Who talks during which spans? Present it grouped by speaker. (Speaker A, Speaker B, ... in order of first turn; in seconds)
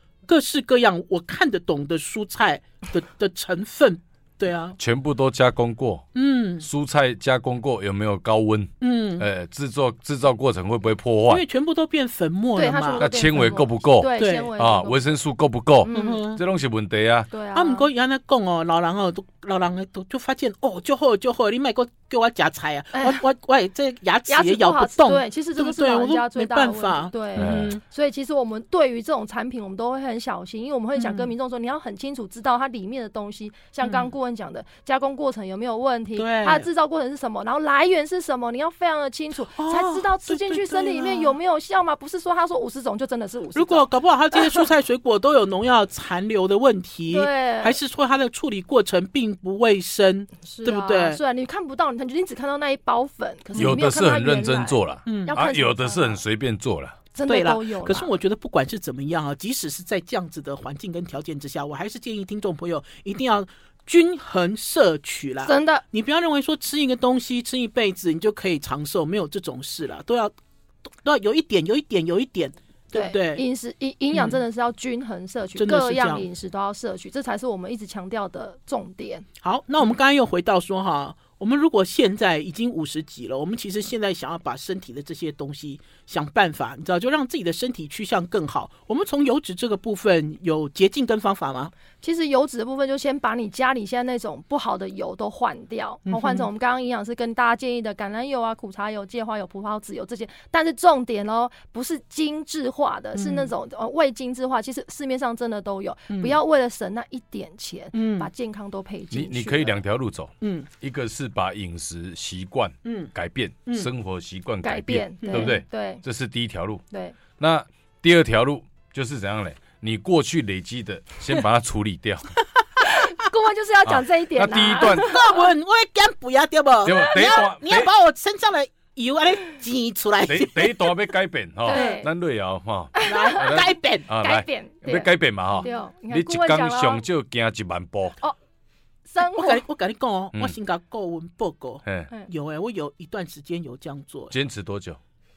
Speaker A: 0.3-4.8, 6.1-6.7, 8.8-9.3, 11.3-13.1, 14.2-14.5, 15.9-16.4, 17.5-27.8, 30.9-31.3, 33.8-34.1, 36.1-36.6, 39.5-41.4, 43.5-51.2, 55.0-55.3, 57.2-70.3, 71.0-73.4, 74.1-74.4, 75.6-76.2, 79.4-91.7, 96.0-96.5, 103.1-103.5, 106.1-106.3, 107.9-108.3, 110.4-110.7, 112.8-113.1, 115.2-115.5, 124.8-130.9, 131.7-132.0, 133.0-134.1, 139.2-144.3
Speaker B: 4.8-6.1, 6.6-11.4, 13.0-17.3, 27.4-27.8, 53.6-57.0, 109.1-116.8, 117.4-122.3, 123.8-125.2, 126.8-127.9, 130.2-138.2, 144.3-145.0
Speaker C: 12.6-15.1, 15.8-16.2, 17.3-17.9, 22.9-23.2, 24.3-44.6, 47.1-47.8, 50.4-56.2, 57.1-58.1, 65.4-65.8, 72.9-79.2, 92.0-109.8, 114.6-116.0, 116.9-117.2, 122.8-125.5, 126.9-127.4, 131.6-132.1, 132.9-137.0, 139.1-139.6